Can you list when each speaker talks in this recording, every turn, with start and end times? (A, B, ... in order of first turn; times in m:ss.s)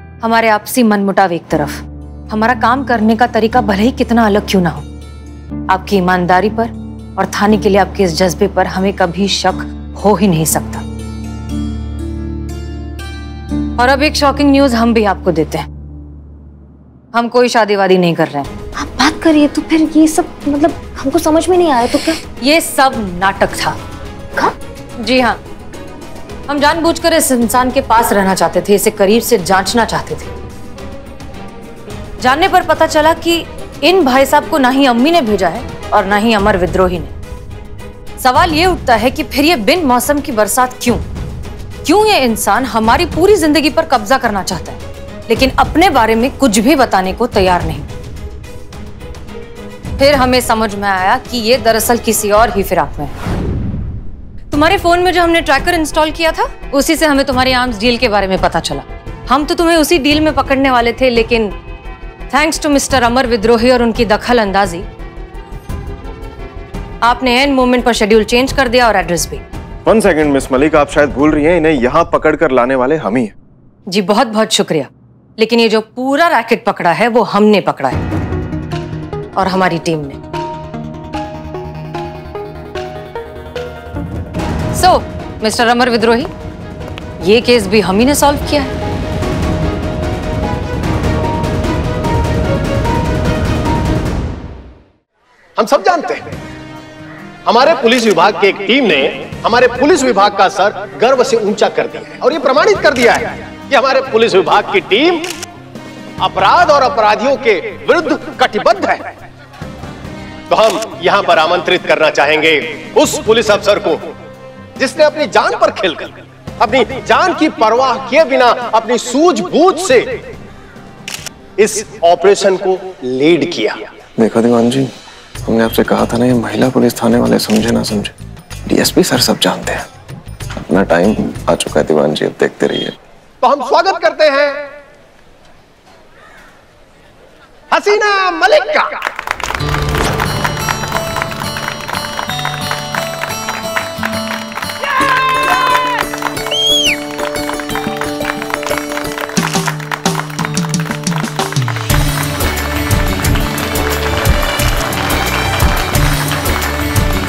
0:00.2-0:04.8 A
0:05.7-0:10.8 A
0:13.8-0:15.7 A
0:17.1-0:18.5 A
0:18.8-0:22.2 B
0:22.4-0:23.8 A
0:25.0-0:25.4 A
0:26.5-0:30.3 A
0:32.2-0:37.1 A
0:38.2-0:41.0 A
0:41.8-0:47.9 A
0:50.0-0:53.1 A
0:54.5-1:01.5 A
1:02.3-1:04.8 A
1:07.0-1:09.4 A
1:09.8-1:13.3 C
1:13.9-1:18.0 A
1:19.4-1:20.2 A
1:24.8-1:26.3 A
1:27.2-1:28.7 A
1:35.6-1:36.2 D
1:37.5-1:45.3 D
1:46.2-1:49.0 D
1:50.5-1:54.0 D
1:54.8-2:00.1 D
2:01.6-2:03.8 D
2:04.2-2:04.9 C
2:05.5-2:08.1 C
2:08.7-2:09.8 C
2:10.6-2:13.0 C
2:13.4-2:14.6 D
2:17.7-2:18.9 D